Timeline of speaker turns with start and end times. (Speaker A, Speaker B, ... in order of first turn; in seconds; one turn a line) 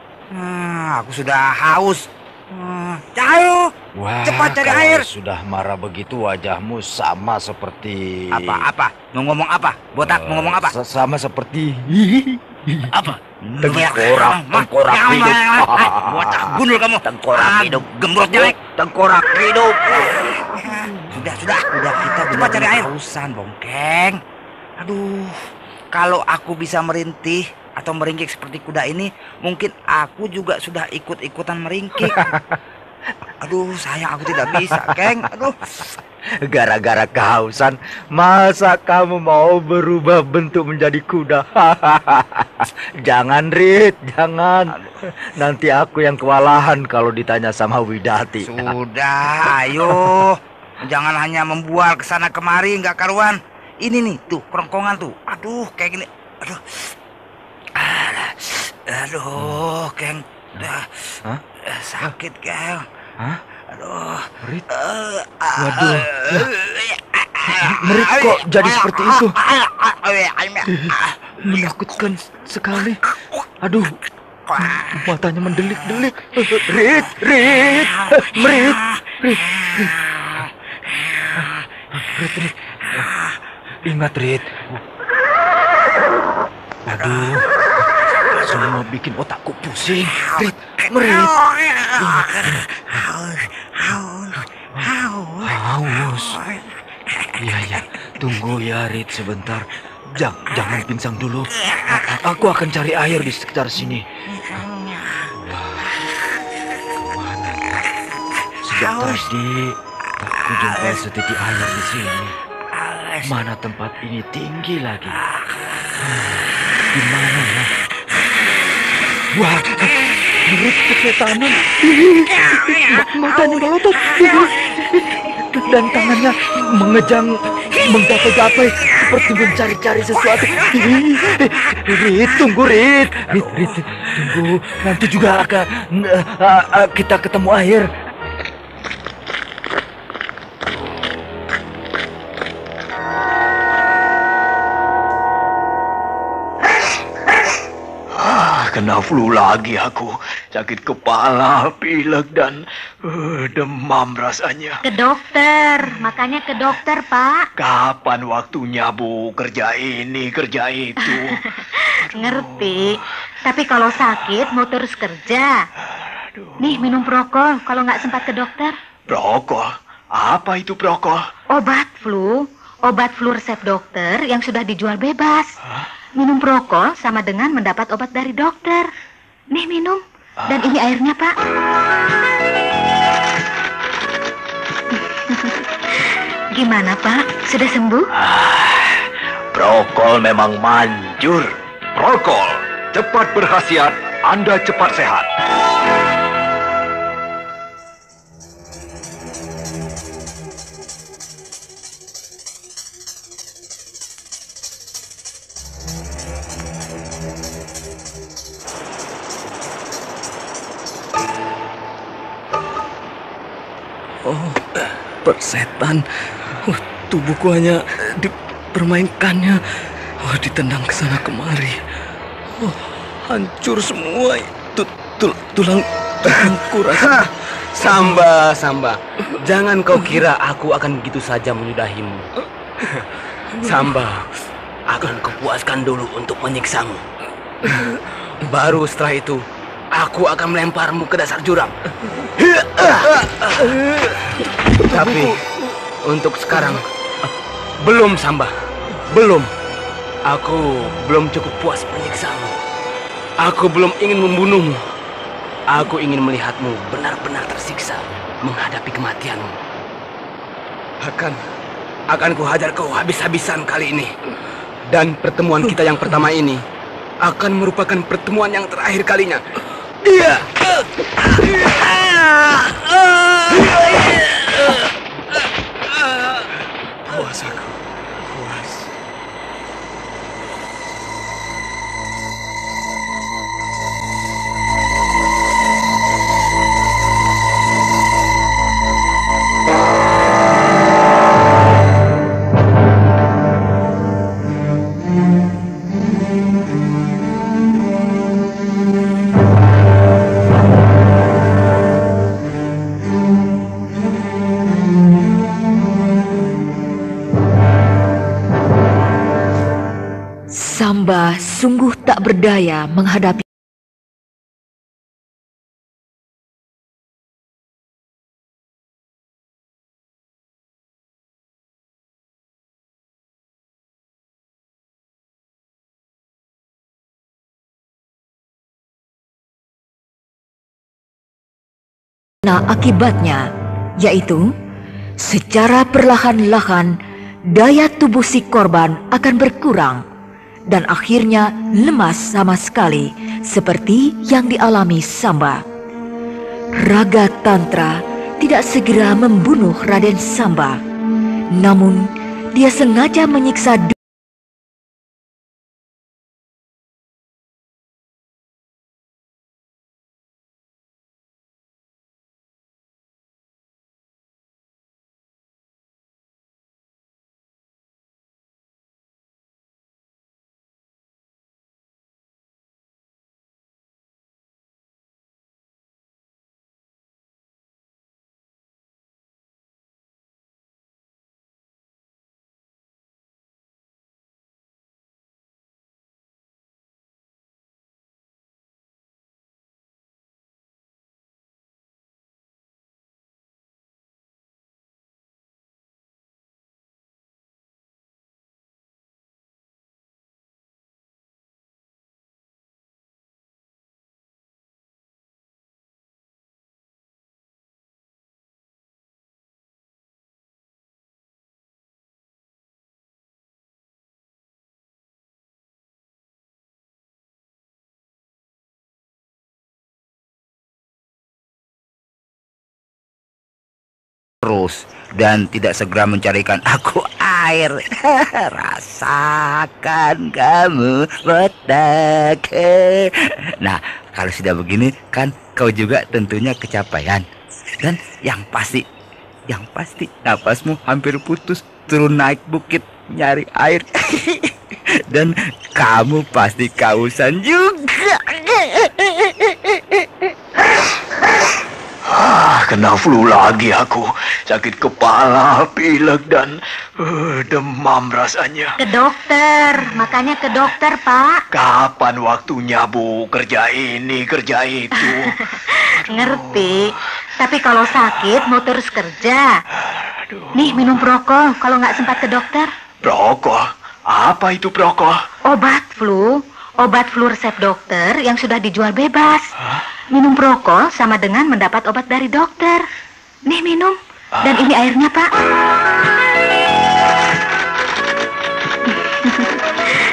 Speaker A: 0.3-3.7
Speaker B: 4.0-8.6
Speaker A: 4.2-5.0
Speaker A: 8.3-10.7
Speaker B: 10.0-12.9
Speaker A: 12.9-24.2
Speaker B: 13.6-19.8
Speaker B: 20.6-21.3
Speaker B: 22.0-22.9
Speaker A: 24.8-25.4
Speaker A: 25.9-32.2
Speaker B: 32.0-32.6
Speaker A: 33.4-35.6
Speaker B: 34.5-35.2
Speaker B: 36.4-44.7
Speaker B: 45.4-48.7
Speaker A: 48.5-56.8
Speaker B: 49.8-50.1
Speaker A: 57.8-61.1
Speaker A: 61.7-62.9
Speaker A: 63.7-71.9
Speaker B: 65.5-66.5
Speaker B: 67.4-69.3
Speaker B: 70.7-73.0
Speaker A: 73.1-73.5
Speaker B: 73.6-74.0
Speaker A: 74.5-75.0
Speaker B: 74.6-80.1
Speaker A: 77.8-80.5
Speaker B: 81.3-83.1
Speaker A: 83.0-83.3
Speaker B: 83.8-84.8
Speaker B: 86.8-87.5
Speaker A: 87.0-87.3
Speaker B: 88.1-93.0
Speaker A: 90.1-97.8
Speaker B: 95.4-96.4
Speaker B: 97.4-104.6
Speaker A: 101.6-102.2
Speaker A: 104.4-105.3
Speaker B: 105.3-105.9
Speaker B: 106.9-107.9
Speaker B: 108.6-112.3
Speaker A: 108.7-109.3
Speaker A: 110.4-111.0
Speaker A: 112.7-113.3
Speaker B: 113.2-115.2
Speaker B: 116.0-117.7
Speaker B: 119.3-137.9
Speaker C: 148.2-154.8
Speaker D: 154.8-157.5
Speaker C: 157.6-161.4
Speaker D: 161.2-165.7
Speaker D: 166.6-168.8
Speaker C: 169.1-171.2
Speaker D: 171.5-175.6
Speaker D: 176.2-178.9
Speaker D: 179.5-181.3
Speaker D: 184.9-188.1
Speaker E: 188.2-195.3
Speaker F: 214.2-219.6
Speaker F: 220.2-221.8
Speaker F: 222.6-227.3
Speaker G: 226.2-226.5
Speaker G: 227.7-232.3
Speaker F: 227.8-228.1
Speaker G: 233.6-234.2
Speaker G: 234.9-237.0
Speaker G: 238.4-239.4
Speaker G: 239.9-241.7
Speaker G: 242.3-245.5
Speaker F: 244.9-245.2
Speaker G: 246.0-246.8
Speaker G: 247.8-248.5
Speaker G: 249.1-249.5
Speaker G: 250.3-252.6
Speaker G: 253.4-254.8
Speaker G: 255.7-259.5
Speaker G: 261.0-261.4
Speaker G: 262.1-264.1
Speaker G: 264.9-266.6
Speaker G: 267.2-269.4
Speaker G: 270.0-274.9
Speaker G: 275.9-276.5
Speaker G: 277.0-278.9
Speaker H: 310.5-313.4
Speaker H: 332.4-333.5
Speaker H: 334.0-334.5
Speaker H: 335.2-337.0
Speaker H: 337.5-340.0
Speaker H: 340.7-345.6
Speaker H: 346.8-350.8
Speaker H: 351.5-353.9
Speaker A: 424.4-437.2
Speaker A: 437.8-438.8
Speaker A: 439.5-444.5
Speaker A: 445.1-450.1
Speaker C: 452.1-458.7
Speaker D: 458.8-461.4
Speaker C: 461.5-465.3
Speaker D: 465.1-469.6
Speaker D: 470.5-472.7
Speaker C: 473.0-475.2
Speaker D: 475.5-479.5
Speaker D: 480.1-482.8
Speaker D: 483.5-485.3
Speaker D: 488.9-489.6